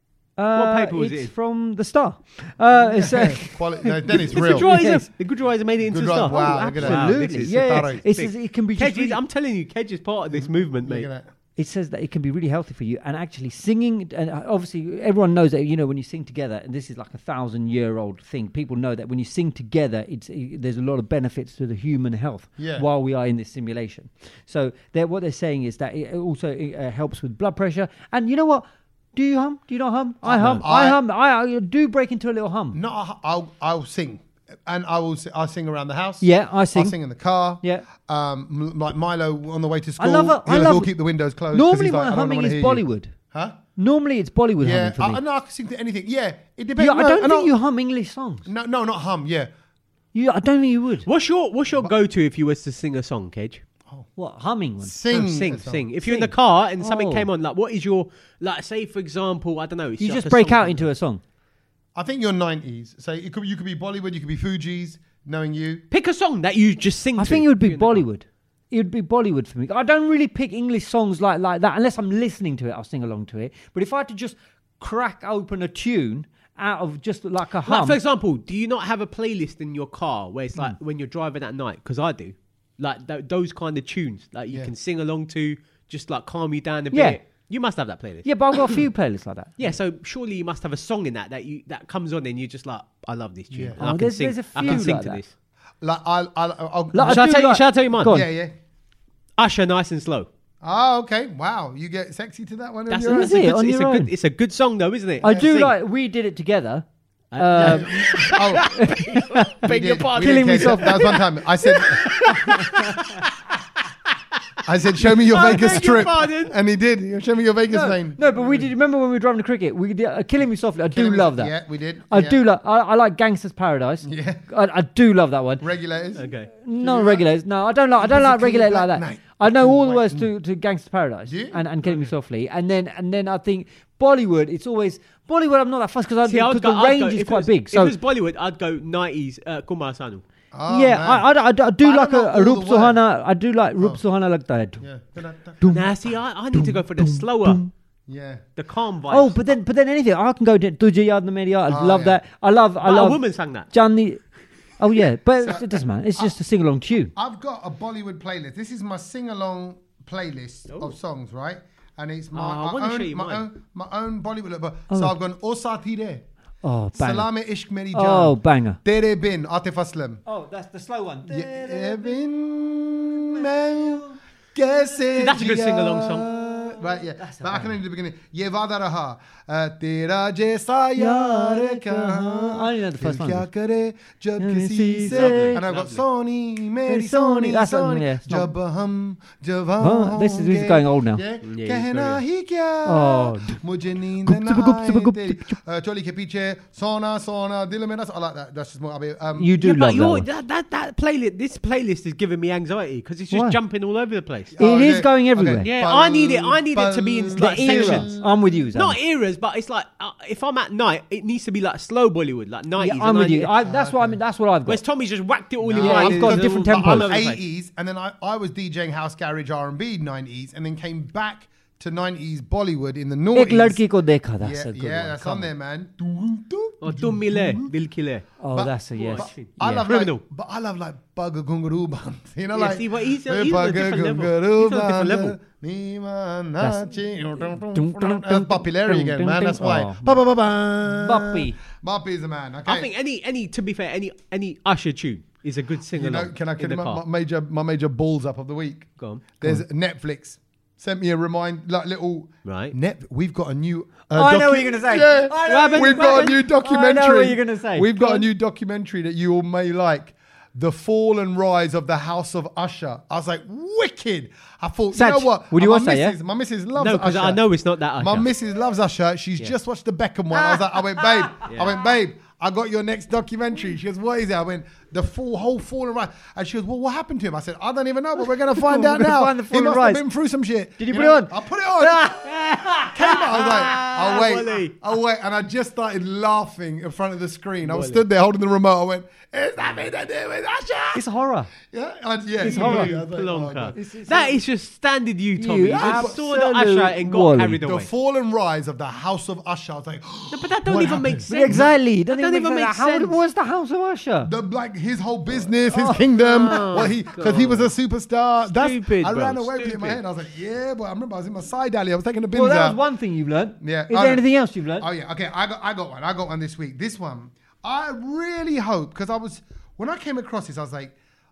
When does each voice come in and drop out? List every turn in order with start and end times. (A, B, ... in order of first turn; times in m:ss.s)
0:00.4-0:05.0 A
0:00.5-0:01.3 B
0:02.8-0:04.7 C
0:04.1-0:11.1 B
0:05.8-0:08.0 C
0:06.3-0:09.2 A
0:10.3-0:11.2 C
0:11.6-0:32.8 A
0:22.6-0:22.8 C
0:30.2-0:31.0 C
0:32.7-0:43.6 C
0:36.2-0:37.0 A
0:40.0-0:40.9 A
0:41.5-0:43.1 A
0:43.8-0:45.2 A
0:44.6-0:47.5 C
0:46.8-0:48.4 A
0:48.4-0:49.5 C
0:50.1-0:51.1 A
0:51.0-0:53.6 B
0:54.2-0:54.9 A
0:54.8-0:55.9 C
0:55.1-1:00.8 B
0:56.0-0:57.3 A
1:00.0-1:01.2 A
1:01.9-1:05.8 C
1:05.9-1:08.0 B
1:07.2-1:18.0 A
1:17.6-1:28.8 B
1:26.9-1:27.2 A
1:28.2-1:29.5 A
1:29.6-1:35.3 B
1:33.5-1:33.8 C
1:33.8-1:35.2 A
1:35.8-1:37.3 C
1:36.9-1:38.3 A
1:37.0-1:38.1 B
1:38.0-1:38.5 C
1:39.4-1:40.3 B
1:40.6-1:43.4 C
1:42.9-1:44.1 A
1:42.9-1:45.7 B
1:45.2-1:51.2 A
1:47.3-1:53.3 B
1:47.6-1:49.0 C
1:49.6-1:52.6 C
1:52.2-1:53.2 A
1:54.6-1:58.7 C
1:55.0-1:56.5 B
1:57.7-2:01.5 A
2:00.9-2:02.4 C
2:02.1-2:05.6 A
2:04.0-2:04.4 C
2:05.6-2:07.2 C
2:06.2-2:06.5 B
2:06.6-2:17.9 A
2:08.0-2:10.3 C
2:11.3-2:12.1 C
2:16.2-2:20.2 B
2:20.5-2:21.3 C
2:20.7-2:24.8 A
2:21.8-2:23.0 C
2:24.8-2:26.0 C
2:25.6-2:25.9 A
2:25.7-2:27.6 B
2:26.5-2:27.7 A
2:28.1-2:28.4 C
2:28.6-2:29.4 B
2:29.1-2:34.2 A
2:31.7-2:32.2 C
2:32.8-2:33.7 B
2:34.8-2:37.1 A
2:35.4-2:36.3 C
2:37.2-2:46.2 C
2:42.3-2:43.4 B
2:44.9-2:45.1 A
2:46.6-2:47.3 A
2:46.9-2:50.2 C
2:47.9-2:48.8 A
2:50.2-2:52.2 A
2:51.3-3:19.5 C
2:53.2-2:54.1 A
2:55.1-2:56.3 B
2:56.4-2:57.8 A
3:01.0-3:03.5 A
3:04.4-3:05.6 A
3:05.1-3:06.0 B
3:06.9-3:08.5 A
3:09.8-3:11.2 A
3:11.4-3:12.2 B
3:12.8-3:13.6 A
3:14.2-3:15.6 A
3:19.4-3:20.2 A
3:19.6-3:24.6 B
3:23.3-3:23.6 A
3:24.5-3:28.3 C
3:24.6-3:25.7 A
3:25.6-3:28.1 B
3:27.4-3:29.0 A
3:28.7-3:33.5 B
3:32.8-3:34.8 A
3:33.6-3:34.2 C
3:34.7-3:37.4 B
3:35.6-3:43.8 C
3:35.8-3:37.2 A
3:43.3-3:45.5 A
3:44.4-3:47.7 C
3:46.8-3:48.2 B
3:48.4-3:49.9 A
3:48.5-4:02.9 C
3:48.9-3:50.2 B
3:52.5-3:55.4 B
3:56.6-4:00.2 A
4:00.8-4:01.6 A
4:02.6-4:07.0 B
4:05.9-4:27.4 C
4:09.0-4:09.2 B
4:12.4-4:12.7 B
4:14.1-4:18.2 A
4:15.4-4:16.4 B
4:24.9-4:26.1 A
4:26.8-4:28.3 B
4:28.0-4:51.0 C
4:30.4-4:31.4 A
4:38.2-4:40.0 A
4:40.8-4:43.9 A
4:43.0-4:44.7 B
4:47.6-4:48.0 B
4:50.9-4:51.5 A
4:51.7-4:53.8 C
4:52.4-4:57.9 B
4:52.4-4:52.9 A
4:53.7-4:54.4 A
4:55.4-4:57.6 A
4:55.8-4:56.2 C
4:57.5-5:01.7 C
5:00.3-5:03.2 B
5:01.3-5:04.3 A
5:04.2-5:12.8 C
5:05.6-5:06.8 A
5:06.2-5:07.7 B
5:08.4-5:10.0 B
5:12.3-5:14.9 A
5:13.6-5:14.2 C
5:14.8-5:20.9 C